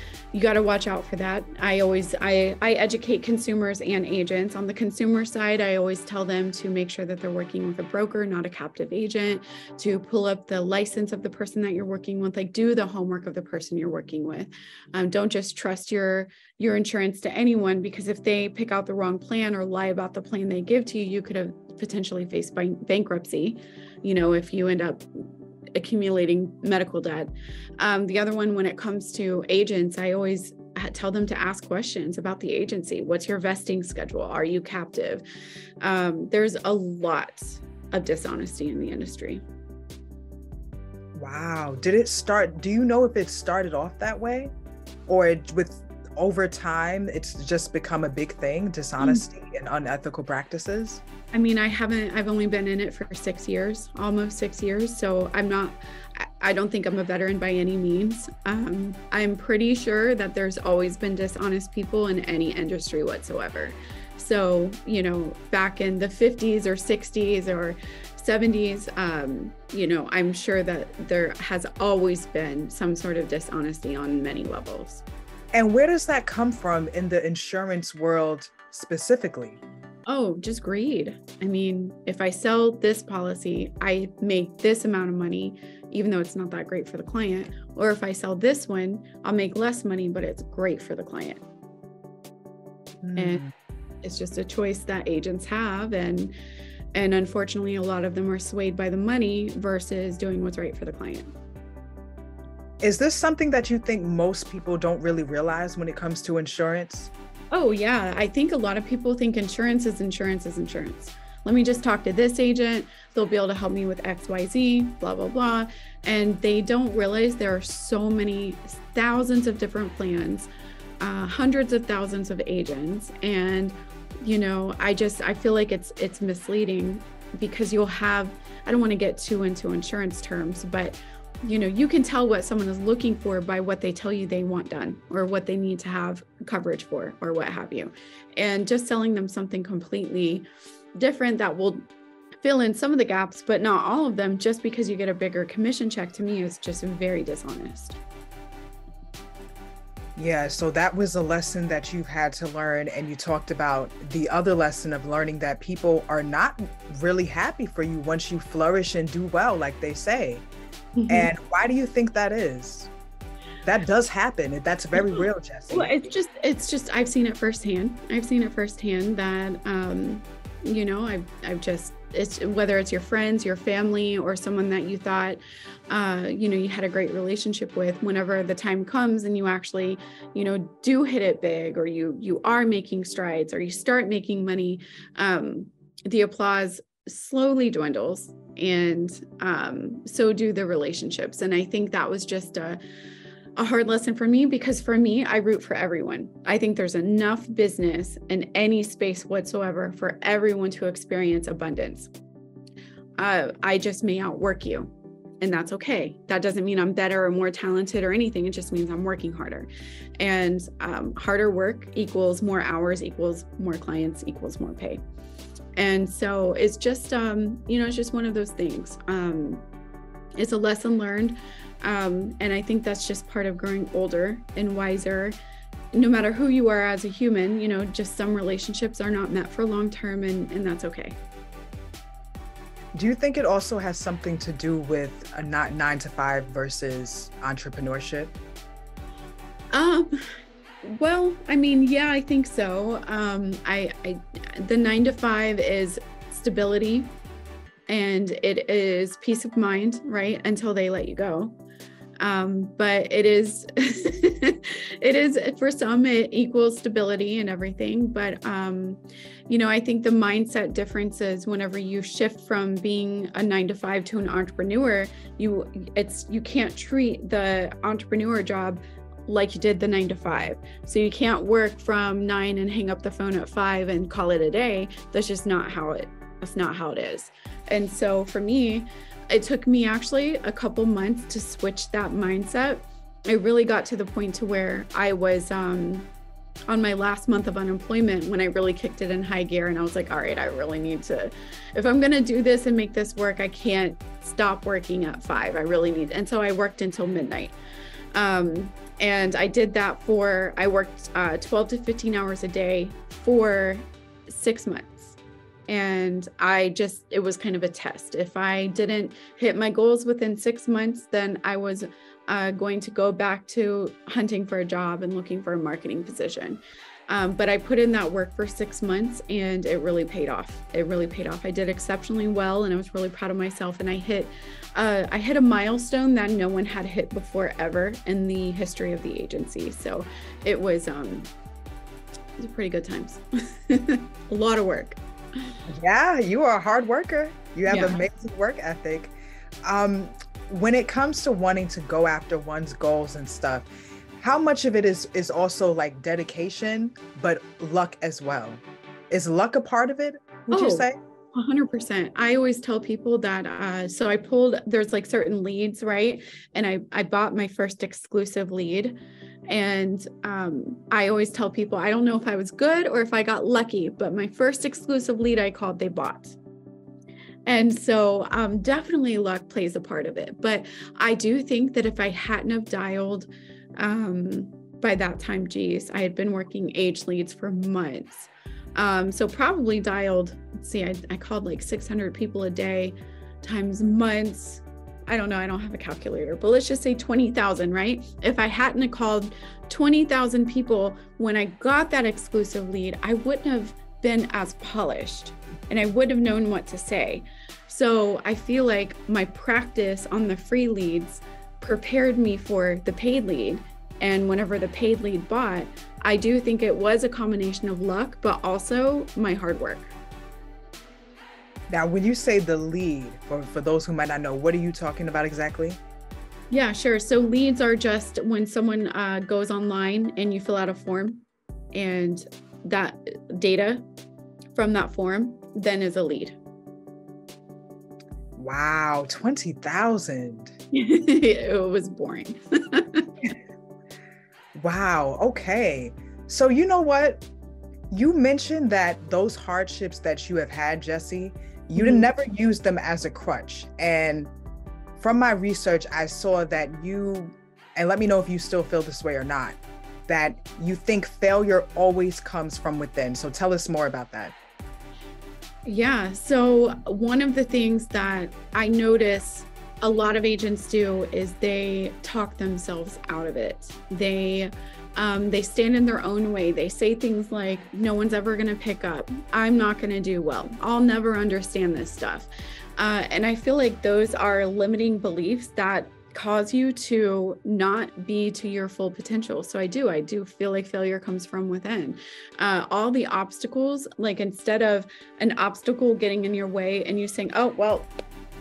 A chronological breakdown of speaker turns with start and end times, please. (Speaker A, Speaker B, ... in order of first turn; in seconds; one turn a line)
Speaker A: 0.3-25.2
Speaker A: 25.7-35.2
Speaker A: 35.8-39.5
Speaker B: 41.1-44.5
Speaker B: 45.1-51.0
Speaker A: 51.3-75.0
Speaker B: 75.5-79.6
Speaker A: 80.1-91.4
Speaker B: 93.0-93.5
Speaker A: 93.2-93.4
Speaker A: 94.0-96.3
Speaker A: 96.9-101.3
Speaker B: 102.8-107.1
Speaker A: 107.5-120.5
Speaker A: 121.0-141.9
Speaker A: 142.4-148.0
Speaker B: 150.2-160.5
Speaker A: 161.0-161.3
Speaker B: 161.1-162.9
Speaker B: 163.6-165.9
Speaker A: 164.9-192.8
Speaker A: 193.6-202.1
Speaker A: 203.2-215.0
Speaker A: 215.8-219.7
Speaker A: 220.4-225.4
Speaker A: 225.9-231.2
Speaker B: 232.9-238.3
Speaker A: 239.7-240.3
Speaker A: 240.8-247.1
Speaker A: 247.9-251.6
Speaker A: 252.2-286.1
Speaker A: 286.7-297.5
Speaker A: 298.1-305.2
Speaker A: 305.7-331.3
Speaker A: 332.4-335.5
Speaker B: 335.7-351.0
Speaker A: 337.7-338.0
Speaker A: 350.5-359.0
Speaker A: 359.5-366.4
Speaker A: 367.5-409.9
Speaker B: 411.7-415.8
Speaker A: 416.5-423.9
Speaker A: 424.5-426.4
Speaker B: 428.4-430.5
Speaker A: 430.7-433.1
Speaker B: 434.6-437.2
Speaker B: 437.9-444.3
Speaker A: 441.8-442.1
Speaker B: 445.0-454.4
Speaker A: 455.6-487.9